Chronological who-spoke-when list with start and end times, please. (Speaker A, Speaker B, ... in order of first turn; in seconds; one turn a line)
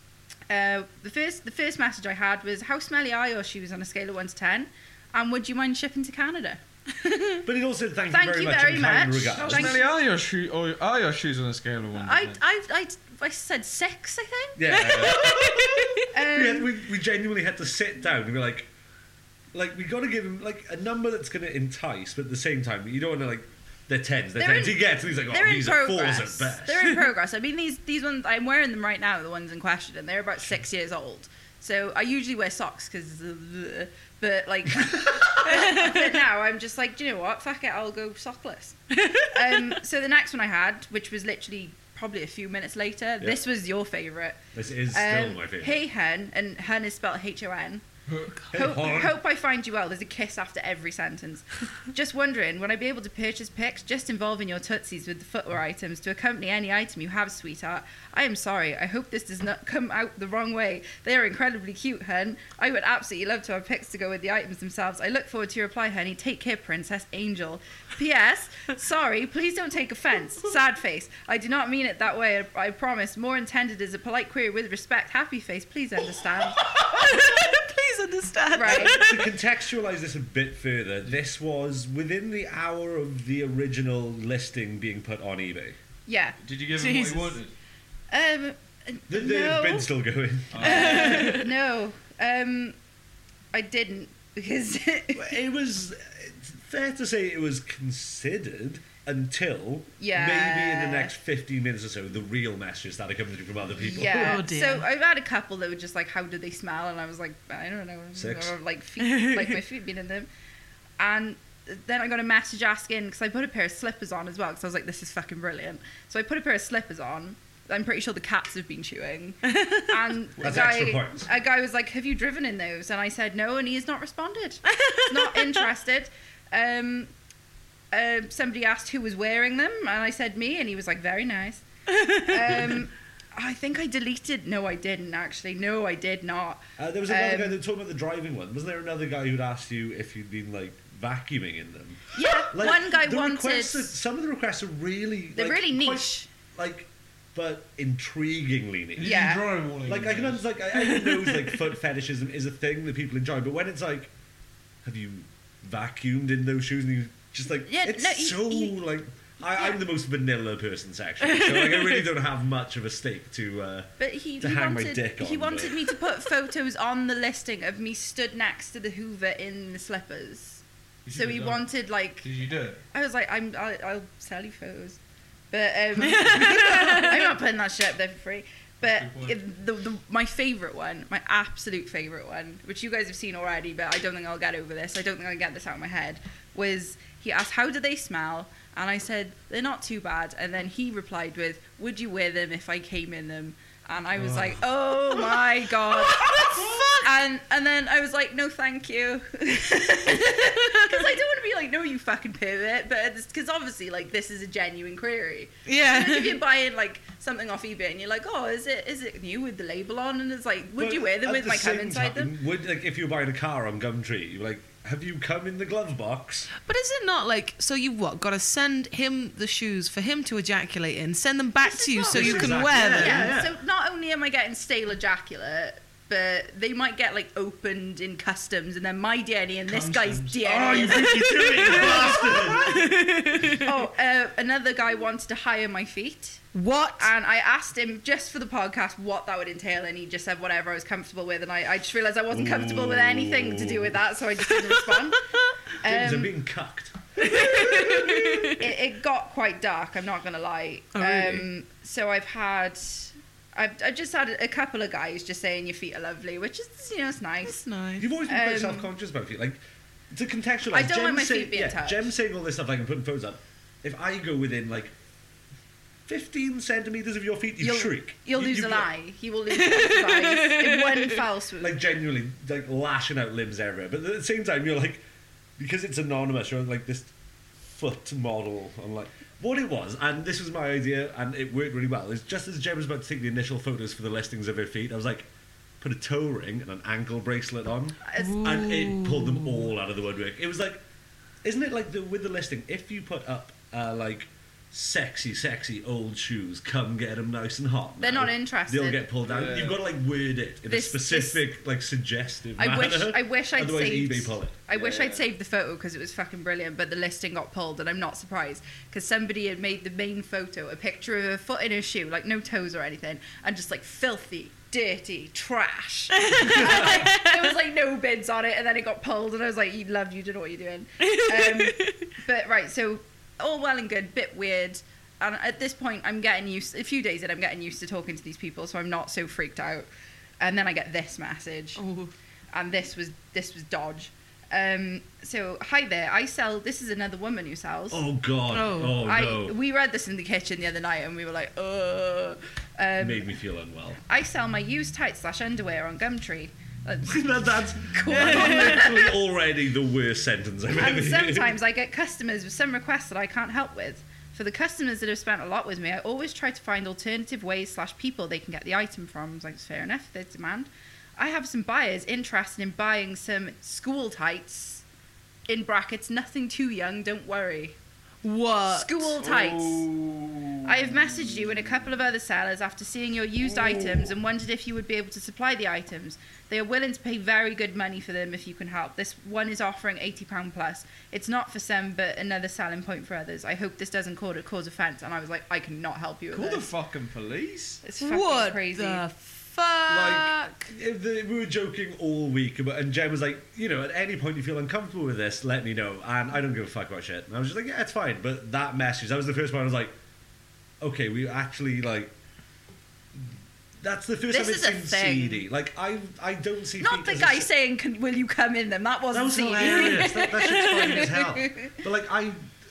Speaker A: 0.5-7.4
Speaker B: 7.4-9.8
Speaker A: 8.1-9.9
Speaker C: 9.3-12.4
Speaker A: 12.0-15.3
Speaker B: 14.6-18.7
Speaker D: 14.7-16.1
Speaker A: 16.1-16.7
Speaker B: 19.5-27.0
Speaker A: 24.4-44.4
Speaker D: 35.5-35.9
Speaker D: 39.0-39.7
Speaker B: 44.5-45.8
Speaker A: 44.9-47.9
Speaker C: 48.1-48.5
Speaker A: 48.5-77.3
Speaker B: 48.5-49.2
Speaker D: 76.5-79.3
Speaker A: 78.5-79.0
Speaker B: 78.6-85.8
Speaker A: 86.1-86.4
Speaker C: 86.4-87.5
Speaker D: 86.8-87.4
Speaker A: 88.1-89.9
Speaker B: 89.1-91.1
Speaker C: 90.5-91.4
Speaker A: 90.6-92.8
Speaker D: 90.6-91.5
Speaker A: 93.5-95.3
Speaker B: 95.2-104.4
Speaker A: 100.0-101.1
Speaker A: 103.9-110.3
Speaker D: 104.1-104.9
Speaker B: 108.2-108.6
Speaker D: 109.0-109.6
Speaker A: 111.0-127.1
Speaker D: 119.5-120.0
Speaker B: 120.4-121.3
Speaker D: 124.7-125.7
Speaker A: 127.9-131.6
Speaker D: 131.9-132.7
Speaker A: 132.2-137.6
Speaker B: 136.8-149.3
Speaker A: 142.2-143.9
Speaker A: 145.4-146.3
Speaker C: 149.0-150.4
Speaker A: 149.0-149.4
Speaker B: 149.8-154.1
Speaker B: 154.8-165.8
Speaker A: 157.7-158.7
Speaker D: 161.3-161.9
Speaker A: 164.0-170.6
Speaker C: 171.1-171.7
Speaker A: 171.1-172.3
Speaker C: 172.2-172.8
Speaker A: 172.9-175.0
Speaker A: 175.5-212.3
Speaker D: 176.0-177.3
Speaker C: 178.8-179.4
Speaker B: 194.2-194.6
Speaker D: 195.8-197.1
Speaker D: 200.2-201.0
Speaker D: 205.7-206.4
Speaker B: 210.8-216.5
Speaker D: 216.6-223.3
Speaker A: 221.6-232.5
Speaker B: 222.1-223.6
Speaker B: 229.7-232.9
Speaker C: 230.8-231.1
Speaker D: 231.3-233.7
Speaker A: 233.6-245.2
Speaker D: 236.5-237.1
Speaker B: 242.3-244.0
Speaker A: 245.8-246.3
Speaker B: 245.8-248.3
Speaker D: 247.2-248.7
Speaker A: 247.4-257.6
Speaker D: 250.9-251.5
Speaker D: 257.4-258.1
Speaker B: 258.0-259.6
Speaker A: 258.3-258.9
Speaker B: 260.1-264.9
Speaker A: 260.7-262.1
Speaker B: 266.1-268.9
Speaker A: 267.6-271.9
Speaker D: 269.5-271.2
Speaker B: 271.6-275.0
Speaker B: 275.6-285.3
Speaker B: 285.8-290.8
Speaker D: 288.1-289.7
Speaker B: 291.4-304.6
Speaker A: 298.0-299.0
Speaker C: 299.2-299.8
Speaker A: 300.7-301.4
Speaker A: 302.6-329.9
Speaker C: 304.7-305.3
Speaker D: 316.2-317.5
Speaker B: 316.5-317.0
Speaker D: 321.0-322.1
Speaker A: 330.4-331.8
Speaker D: 331.8-332.1
Speaker A: 332.5-338.0
Speaker B: 337.9-339.6
Speaker D: 338.5-339.0
Speaker A: 338.9-343.3
Speaker B: 343.0-344.0
Speaker A: 344.1-347.2
Speaker B: 347.1-351.6
Speaker A: 347.9-349.1
Speaker D: 348.1-348.8
Speaker A: 350.7-364.8
Speaker A: 365.5-367.8
Speaker D: 368.2-369.1
Speaker A: 368.7-369.9
Speaker C: 369.2-371.8
Speaker A: 370.6-386.7
Speaker C: 373.4-374.1
Speaker C: 386.3-387.8
Speaker A: 387.8-389.0
Speaker D: 388.0-390.7
Speaker B: 389.9-399.9
Speaker B: 400.8-402.1
Speaker B: 403.8-407.5
Speaker A: 404.3-405.4
Speaker A: 406.8-411.7
Speaker B: 409.1-412.4
Speaker D: 409.5-410.2